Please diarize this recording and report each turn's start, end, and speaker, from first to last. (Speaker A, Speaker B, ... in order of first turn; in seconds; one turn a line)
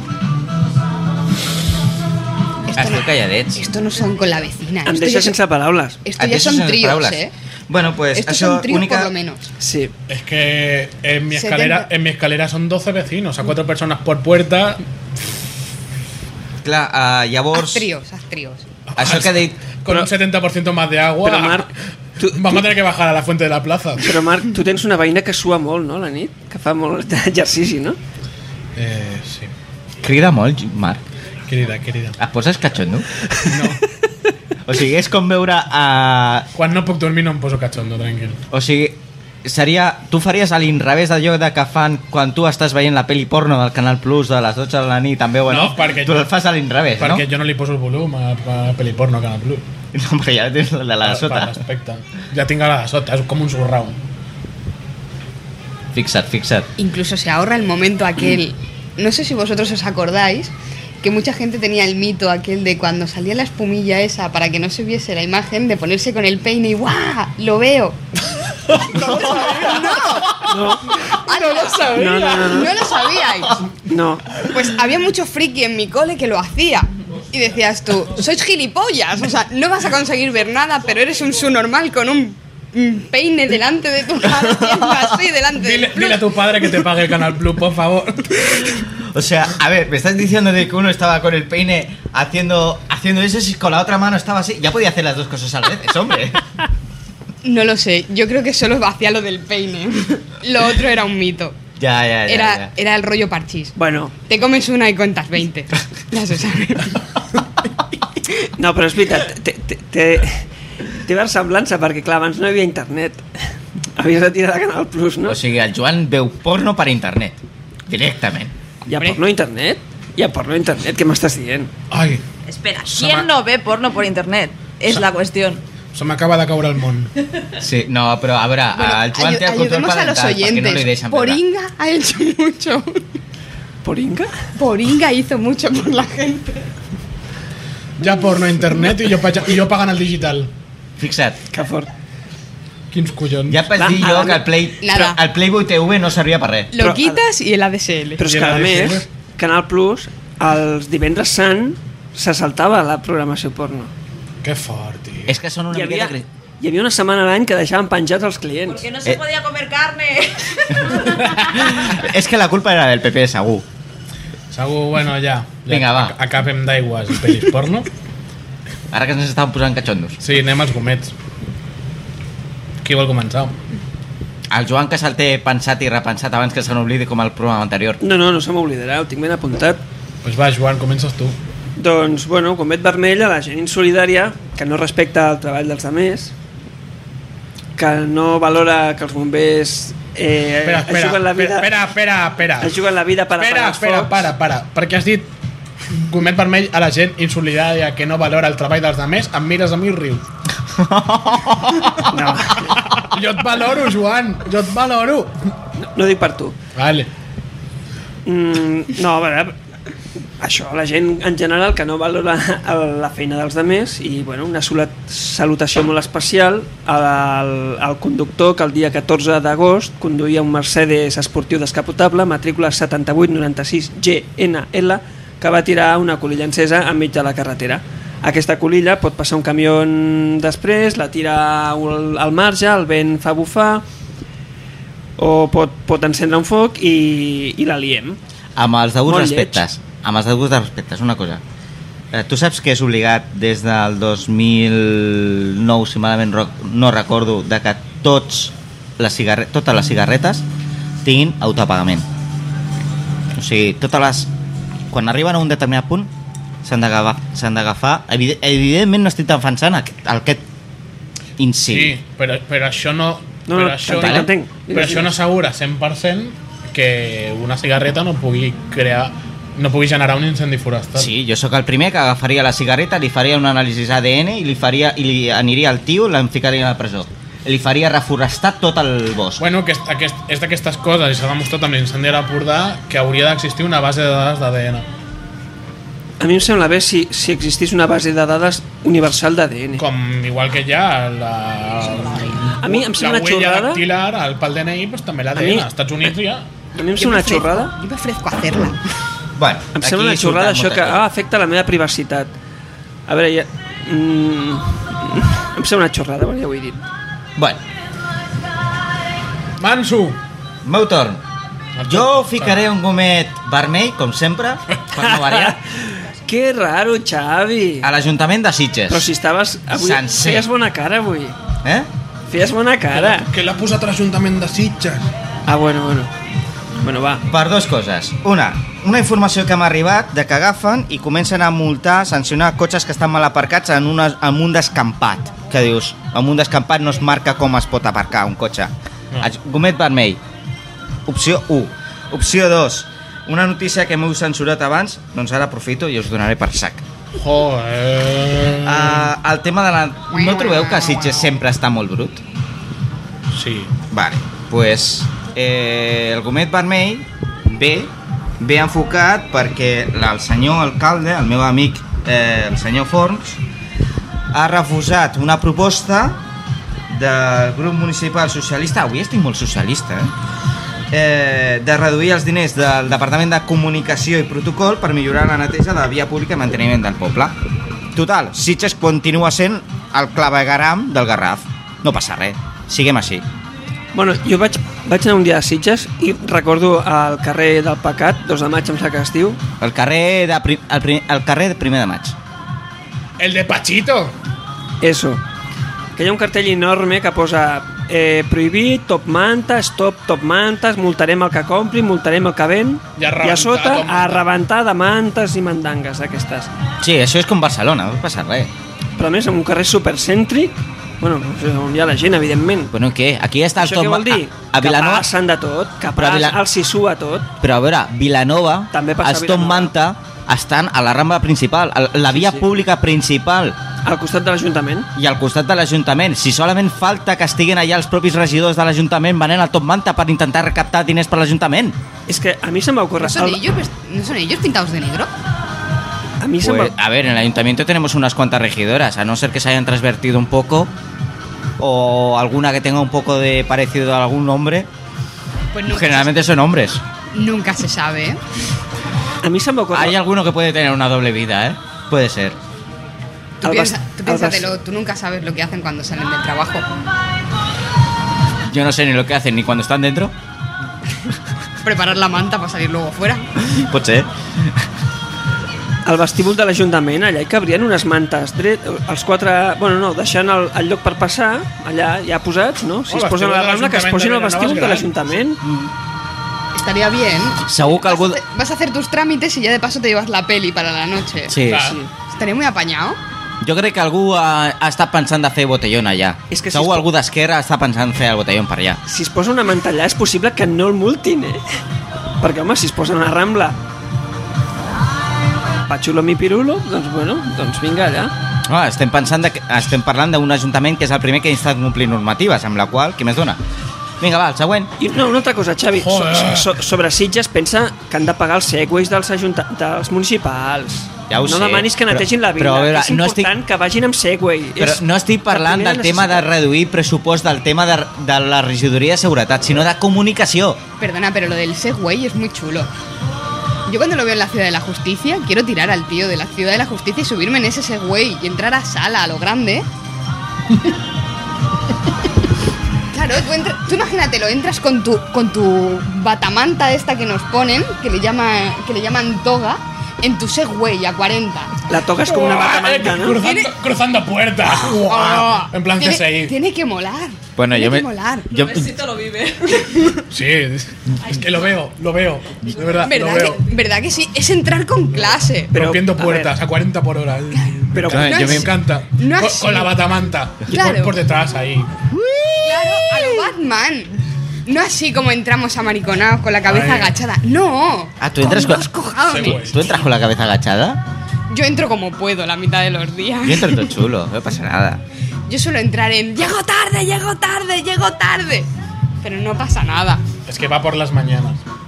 Speaker A: 2.7-5.4
Speaker B: 2.7-3.6
Speaker C: 4.9-6.0
Speaker A: 6.0-7.3
Speaker B: 6.2-9.1
Speaker A: 8.1-9.5
Speaker C: 9.6-9.9
Speaker D: 10.1-14.8
Speaker A: 11.3-11.9
Speaker B: 16.6-17.9
Speaker A: 17.5-18.6
Speaker D: 18.9-21.7
Speaker B: 18.9-19.6
Speaker C: 21.2-22.6
Speaker D: 22.3-24.1
Speaker C: 24.0-28.0
Speaker D: 28.8-29.5
Speaker B: 30.0-31.0
Speaker D: 31.5-32.2
Speaker B: 32.2-33.1
Speaker D: 33.5-33.8
Speaker B: 34.7-36.5
Speaker D: 36.5-38.4
Speaker B: 38.5-47.2
Speaker D: 45.5-46.3
Speaker D: 47.0-49.6
Speaker B: 49.9-51.6
Speaker D: 51.0-54.0
Speaker B: 55.9-56.7
Speaker A: 56.8-68.0
Speaker D: 68.8-70.5
Speaker A: 68.8-70.5
Speaker C: 70.4-71.0
Speaker A: 71.1-73.7
Speaker D: 71.1-72.7
Speaker C: 71.9-72.8
Speaker C: 73.8-74.4
Speaker A: 74.4-86.6
Speaker B: 84.3-85.2
Speaker D: 85.5-88.7
Speaker B: 89.0-96.4
Speaker A: 97.4-101.6
Speaker B: 101.8-102.7
Speaker A: 102.3-103.7
Speaker C: 103.8-104.1
Speaker A: 104.3-107.0
Speaker C: 108.6-110.5
Speaker C: 111.0-113.3
Speaker C: 114.0-115.4
Speaker B: 115.2-118.5
Speaker C: 118.9-121.7
Speaker D: 121.9-122.2
Speaker E: 122.5-125.6
Speaker D: 122.9-123.3
Speaker D: 125.9-127.1
Speaker B: 127.6-131.4
Speaker A: 128.8-133.0
Speaker C: 133.8-134.3
Speaker A: 134.6-136.7
Speaker D: 138.0-140.5
Speaker B: 141.0-141.4
Speaker C: 141.5-141.9
Speaker D: 142.9-143.6
Speaker B: 143.5-146.7
Speaker C: 143.7-144.4
Speaker A: 144.8-145.2
Speaker A: 146.7-148.2
Speaker C: 146.7-147.2
Speaker C: 148.2-153.9
Speaker D: 148.2-149.1
Speaker D: 154.4-155.4
Speaker B: 155.3-156.3
Speaker C: 155.7-158.8
Speaker E: 158.7-161.6
Speaker B: 161.4-163.6
Speaker D: 164.5-167.9
Speaker B: 165.7-166.2
Speaker B: 168.9-170.2
Speaker D: 170.2-171.1
Speaker D: 172.8-173.6
Speaker B: 174.5-178.0
Speaker C: 178.0-179.8
Speaker D: 180.2-181.4
Speaker C: 181.8-186.3
Speaker C: 187.8-191.7
Speaker D: 190.6-192.7
Speaker C: 192.6-194.1
Speaker D: 193.4-195.3
Speaker D: 195.9-200.2
Speaker B: 200.7-202.1
Speaker C: 202.1-202.8
Speaker D: 202.7-205.3
Speaker C: 205.8-206.6
Speaker D: 206.8-207.1
Speaker C: 208.3-209.6
Speaker C: 210.4-233.8
Speaker C: 235.2-238.2
Speaker B: 238.6-241.4
Speaker C: 239.1-239.6
Speaker B: 242.1-250.4
Speaker B: 251.0-252.1
Speaker B: 253.3-254.3
Speaker B: 254.9-256.1
Speaker B: 256.6-260.4
Speaker B: 261.4-262.0
Speaker D: 261.7-271.1
Speaker C: 263.5-265.1
Speaker B: 263.9-264.3
Speaker B: 270.9-279.4
Speaker D: 279.4-284.9
Speaker C: 286.2-289.8
Speaker D: 289.8-296.4
Speaker C: 292.6-293.8
Speaker C: 295.4-295.7
Speaker C: 296.7-297.7
Speaker A: 296.9-298.8
Speaker B: 299.4-301.0
Speaker C: 299.7-302.3
Speaker C: 303.1-306.8
Speaker D: 309.6-310.2
Speaker B: 310.6-311.2
Speaker D: 311.8-312.6
Speaker B: 311.9-315.6
Speaker C: 314.9-317.9
Speaker B: 317.8-319.1
Speaker C: 318.9-321.4
Speaker B: 319.7-320.5
Speaker C: 322.3-323.3
Speaker D: 322.9-325.1
Speaker C: 325.5-326.1
Speaker C: 326.8-327.2
Speaker B: 327.3-340.2
Speaker B: 341.1-346.9
Speaker D: 347.2-349.1
Speaker B: 348.6-352.2
Speaker A: 350.1-351.3
Speaker D: 353.3-353.7
Speaker B: 353.9-363.4
Speaker B: 364.3-366.2
Speaker B: 366.9-370.1
Speaker B: 370.9-377.4
Speaker B: 377.9-383.2
Speaker C: 383.9-389.4
Speaker B: 389.6-392.2
Speaker D: 393.2-394.1
Speaker C: 394.8-395.2
Speaker C: 395.9-406.5
Speaker D: 403.0-404.2
Speaker B: 406.8-408.5
Speaker C: 409.0-412.7
Speaker B: 412.7-415.1
Speaker C: 413.6-417.3
Speaker B: 416.0-416.4
Speaker B: 417.4-423.6
Speaker C: 418.7-419.7
Speaker C: 422.1-422.4
Speaker C: 423.9-424.9
Speaker B: 424.9-431.8
Speaker C: 432.1-433.4
Speaker A: 433.0-435.1
Speaker C: 436.2-436.7
Speaker B: 436.4-440.7
Speaker B: 441.6-444.7
Speaker A: 445.5-446.1
Speaker B: 445.7-446.8
Speaker A: 447.1-448.2
Speaker C: 449.2-450.0
Speaker B: 449.7-452.4
Speaker A: 453.4-456.7
Speaker C: 453.4-454.6
Speaker B: 458.5-460.1
Speaker A: 461.6-463.3
Speaker B: 463.5-464.6
Speaker C: 465.9-475.4
Speaker D: 472.9-474.9
Speaker B: 475.4-475.7
Speaker A: 476.5-481.4
Speaker B: 477.4-478.2
Speaker B: 481.3-481.7
Speaker D: 481.5-481.8
Speaker C: 481.5-481.9
Speaker A: 482.1-483.0
Speaker B: 483.4-488.8
Speaker C: 486.3-486.9
Speaker C: 488.9-491.4
Speaker C: 492.2-493.6
Speaker C: 495.7-498.1
Speaker B: 498.5-503.4
Speaker B: 504.0-504.7
Speaker C: 504.8-516.3
Speaker D: 505.8-506.5
Speaker B: 511.1-513.3
Speaker B: 514.6-520.6
Speaker A: 520.8-522.7
Speaker A: 523.7-529.7
Speaker A: 532.9-541.5
Speaker C: 541.7-543.2
Speaker D: 542.0-546.3
Speaker A: 543.2-543.5
Speaker A: 544.5-548.5
Speaker B: 547.4-548.7
Speaker E: 548.3-549.9
Speaker A: 549.6-550.0
Speaker D: 550.1-553.4
Speaker E: 551.1-551.3
Speaker A: 552.8-555.5
Speaker D: 555.5-561.7
Speaker C: 555.5-556.3
Speaker A: 557.4-559.7
Speaker C: 557.7-558.1
Speaker B: 558.0-558.5
Speaker A: 560.5-561.0
Speaker A: 562.4-569.7
Speaker D: 566.4-566.9
Speaker B: 568.0-570.8
Speaker D: 569.1-569.6
Speaker A: 571.3-573.7
Speaker B: 573.2-574.8
Speaker A: 575.3-578.5
Speaker A: 579.0-580.0
Speaker D: 580.3-581.4